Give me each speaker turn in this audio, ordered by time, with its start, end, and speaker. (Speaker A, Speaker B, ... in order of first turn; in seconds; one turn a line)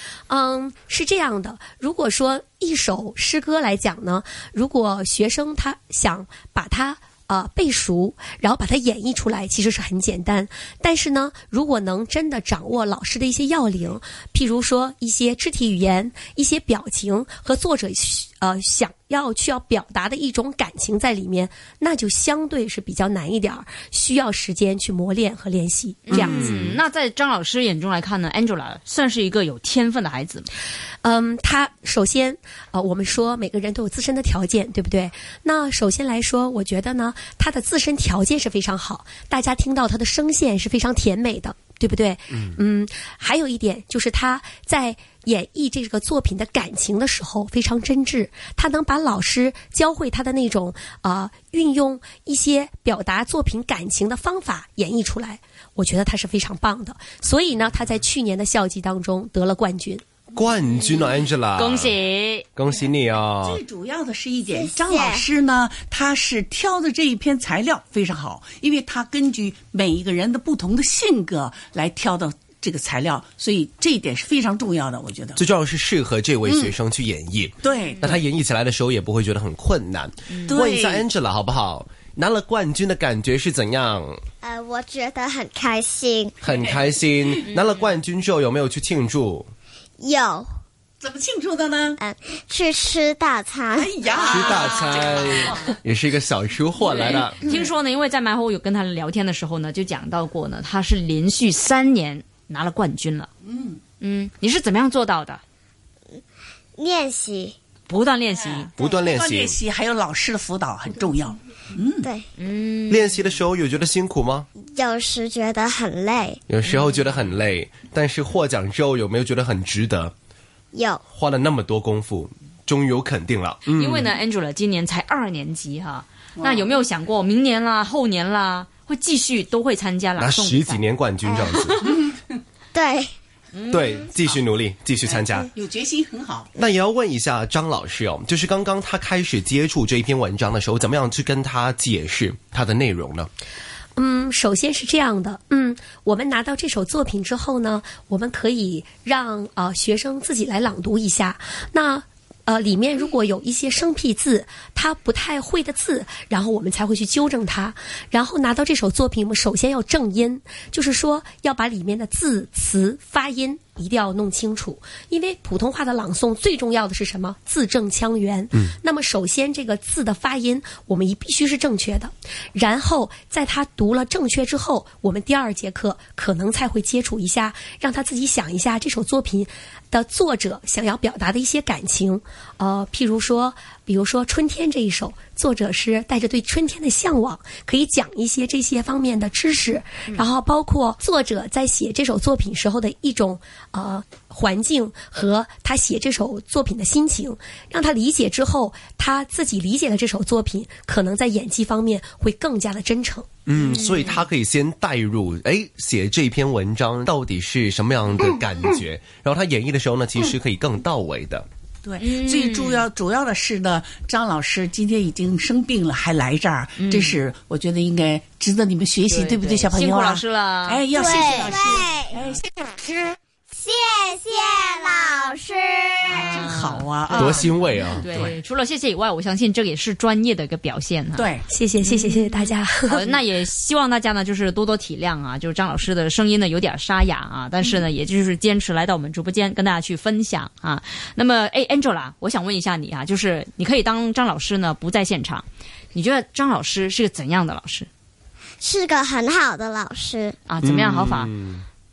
Speaker A: 0.3-26.5
Speaker B: 26.1-30.5
Speaker C: 26.1-26.8
Speaker A: 31.0-60.0
Speaker C: 60.4-62.0
Speaker B: 61.6-62.5
Speaker C: 62.6-63.6
Speaker D: 63.4-75.4
Speaker E: 64.5-65.3
Speaker C: 75.4-84.2
Speaker D: 76.4-76.8
Speaker D: 77.6-78.2
Speaker B: 80.3-80.5
Speaker D: 80.5-81.0
Speaker E: 84.4-86.4
Speaker C: 86.4-89.5
Speaker D: 86.5-87.5
Speaker E: 90.0-90.5
Speaker D: 91.0-92.0
Speaker E: 92.0-94.4
Speaker D: 93.8-95.7
Speaker C: 94.3-97.4
Speaker B: 96.8-103.3
Speaker D: 103.5-103.8
Speaker B: 104.0-105.4
Speaker E: 106.8-107.5
Speaker B: 107.9-108.7
Speaker D: 108.5-112.1
Speaker C: 108.8-109.6
Speaker B: 112.4-113.2
Speaker C: 112.9-114.5
Speaker E: 114.6-116.4
Speaker C: 116.5-120.1
Speaker E: 120.7-121.0
Speaker C: 121.1-124.1
Speaker B: 123.7-130.8
Speaker D: 126.4-126.7
Speaker C: 130.2-132.0
Speaker E: 131.2-131.5
Speaker E: 132.7-133.1
Speaker B: 133.5-134.1
Speaker C: 133.7-135.5
Speaker D: 135.0-136.5
Speaker C: 136.6-143.3
Speaker A: 144.0-203.3
Speaker C: 203.5-211.5
Speaker B: 203.6-204.2
Speaker D: 211.8-223.2
Speaker B: 212.0-212.8
Speaker B: 216.8-217.2
Speaker B: 219.1-220.8
Speaker E: 220.9-222.1
Speaker E: 223.5-226.3
Speaker D: 226.1-228.4
Speaker B: 226.2-231.3
Speaker C: 227.1-228.0
Speaker D: 231.2-231.5
Speaker A: 231.5-233.2
Speaker B: 231.9-247.9
Speaker E: 248.6-250.4
Speaker B: 250.5-251.3
Speaker C: 250.6-251.7